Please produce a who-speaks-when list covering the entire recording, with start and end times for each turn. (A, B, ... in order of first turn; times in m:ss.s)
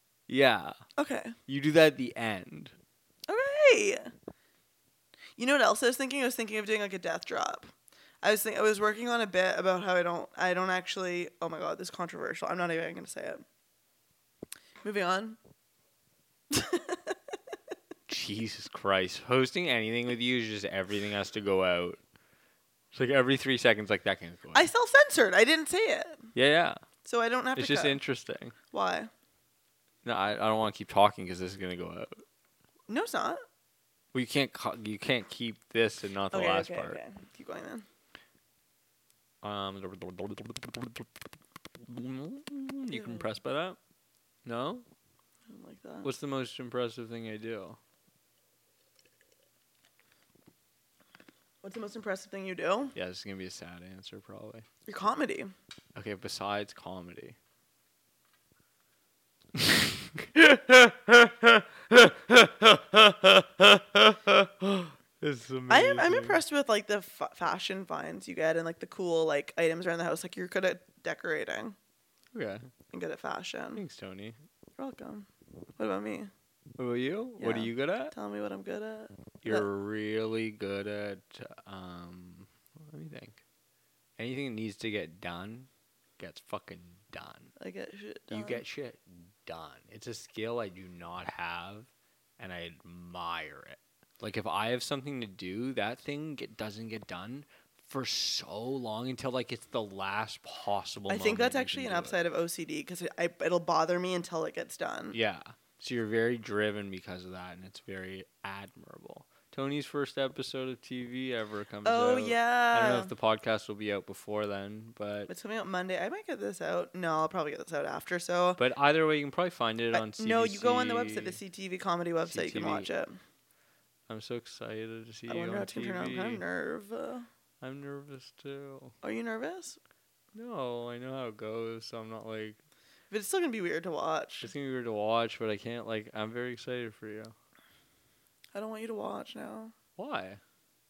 0:00.3-0:00.8 A
0:01.0-0:01.4 B
0:01.5-0:02.7 A
0:03.3-0:04.1 B
0:05.4-0:07.7 B
0:08.2-0:13.4 B
0:14.8-0:15.4 B
0:16.5-0:17.2 B
0:18.1-0:22.0 A
0:22.9-0:24.7 A
0:24.5-0:26.3 B
0:26.3-0:26.8 A
0:27.0-0:28.0 B
0:27.5-0:28.5 A
0:28.7-0:29.1 B
0:30.0-0:32.2 A
0:32.9-0:33.4 B
0:34.1-0:37.0 A
0:36.3-0:37.8 B
0:39.4-0:41.3 A
0:41.8-0:43.8 A
0:42.9-0:43.3 B
0:44.4-0:44.8 A
0:45.5-0:46.1 B
0:46.0-0:47.8 A
0:51.6-0:53.0 B
0:52.9-0:54.6 A
0:54.9-0:55.5 B
0:55.9-0:57.4 A
0:59.5-1:06.4 A
1:05.7-1:11.8 B
1:12.3-1:12.7 A
1:12.9-1:13.8 B
1:13.8-1:14.4 A
1:14.8-1:16.3 B
1:16.8-1:18.1 A
1:17.4-1:19.7 B
1:19.4-1:23.4 A
1:24.2-1:27.5 A
1:27.6-1:28.6 B
1:28.3-1:42.2 A
1:41.1-1:45.2 B
1:45.1-1:55.3 A
1:51.8-1:53.1 B
1:55.3-1:58.6 B
1:58.6-2:01.4 A
1:59.9-2:03.2 B
2:02.3-2:02.9 A
2:04.1-2:06.4 A
2:05.3-2:07.3 B
2:07.6-2:08.9 A
2:09.0-2:09.8 B
2:10.3-2:12.6 A
2:13.1-2:14.5 B
2:14.4-2:17.3 A
2:18.5-2:19.7 B
2:20.0-2:20.4 A